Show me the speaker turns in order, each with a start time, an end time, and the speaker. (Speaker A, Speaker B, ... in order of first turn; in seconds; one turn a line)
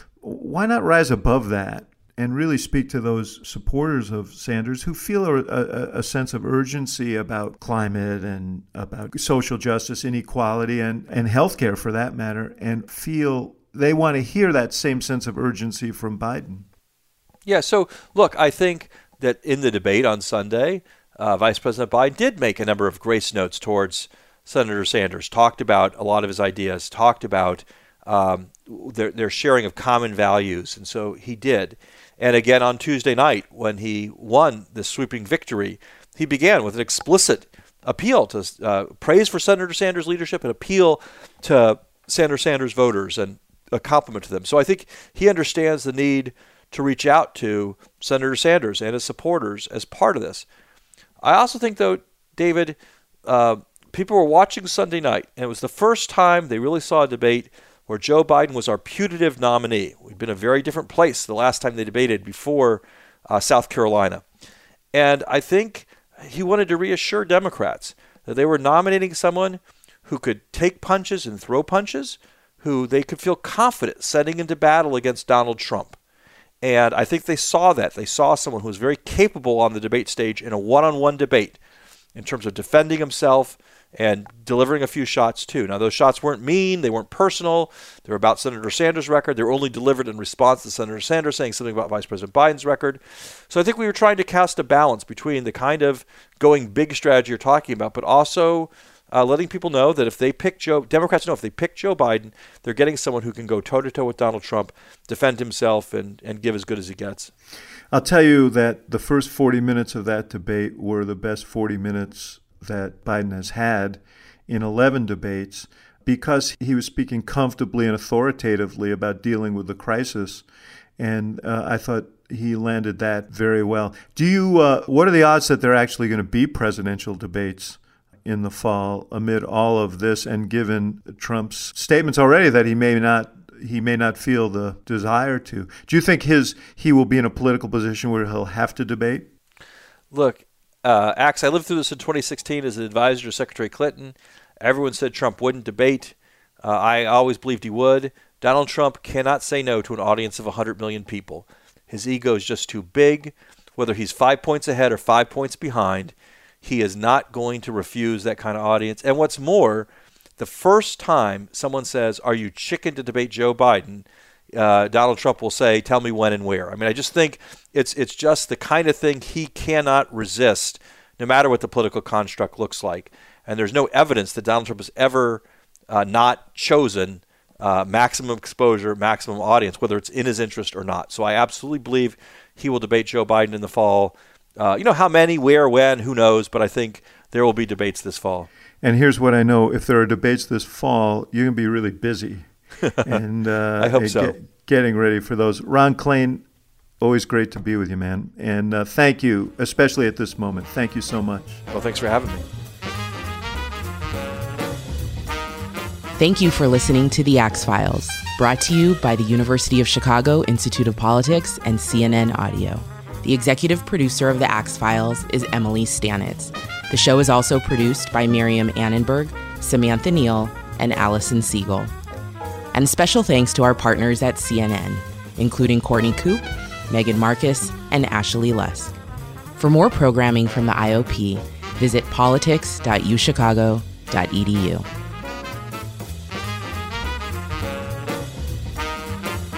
Speaker A: 0.2-16.7
Speaker B: 17.5-50.5
Speaker B: 51.2-64.2
Speaker B: 64.9-76.0
Speaker B: 76.6-81.6
Speaker B: 82.2-107.3
Speaker A: 107.9-120.5
Speaker A: 121.0-139.3
Speaker B: 140.1-188.5
Speaker A: 188.8-192.5
Speaker B: 192.8-193.2
Speaker A: 193.0-196.4
Speaker B: 193.8-194.4
Speaker A: 197.0-201.6
Speaker B: 201.7-202.4
Speaker C: 206.2-221.9
Speaker C: 222.7-228.9
Speaker C: 229.6-234.9